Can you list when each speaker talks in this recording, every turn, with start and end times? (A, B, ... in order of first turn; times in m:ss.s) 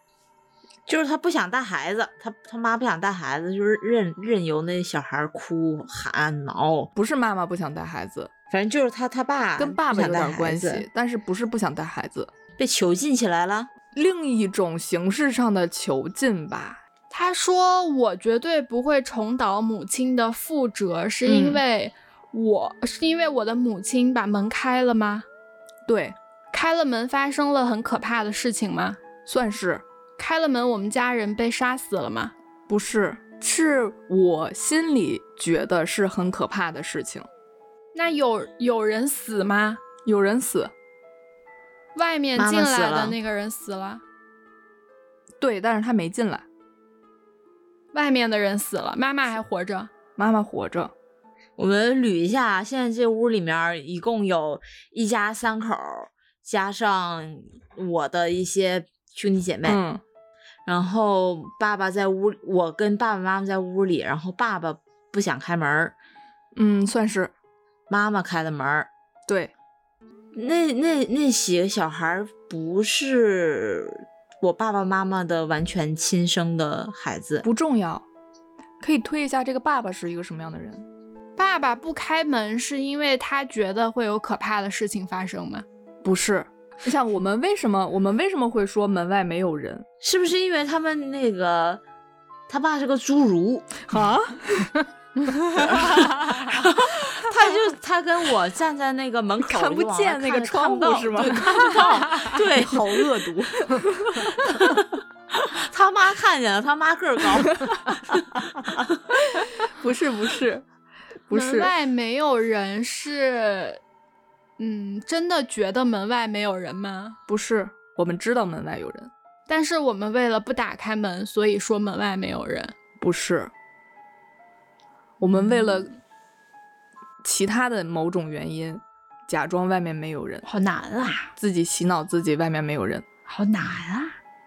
0:00.9-0:06.9 A
0:07.0-0:08.3 B
0:08.5-0:10.9 A
0:09.6-0:12.3 B
0:12.6-0:13.7 A
0:13.9-0:16.8 B
0:17.1-0:25.3 C
0:21.2-0:21.6 B
0:25.9-0:26.2 B
0:26.5-0:29.0 C
0:29.3-0:29.8 B
0:30.2-0:32.3 C
0:32.7-0:37.3 B
0:37.9-0:39.8 C
0:40.0-0:40.7 B
0:42.0-0:44.0 C
0:42.4-0:43.2 A
0:45.4-0:46.4 B
0:47.9-0:49.9 C
0:50.2-0:50.9 B
0:51.6-0:59.8 A
0:59.6-1:00.0 B
1:00.7-1:05.9 A
1:06.6-1:07.3 B
1:07.9-1:08.9 A
1:09.3-1:09.5 B
1:10.3-1:17.5 A
1:17.4-1:18.0 B
1:18.8-1:20.8 B
1:21.4-1:25.6 C
1:26.0-1:29.9 B
1:30.0-1:31.8 A
1:32.5-1:33.9 A
1:33.9-1:36.2 B
1:35.6-1:48.9 A
1:39.4-1:44.3 B
1:49.4-1:50.6 B
1:51.3-1:51.7 B
1:51.3-1:53.8 C
1:54.6-1:57.2 C
1:57.3-1:59.1 B
1:59.5-2:02.8 C
2:03.0-2:03.5 B
2:05.2-2:05.9 B
2:07.2-2:10.4 B
2:10.4-2:11.3 C
2:11.4-2:13.0 B
2:13.3-2:14.2 C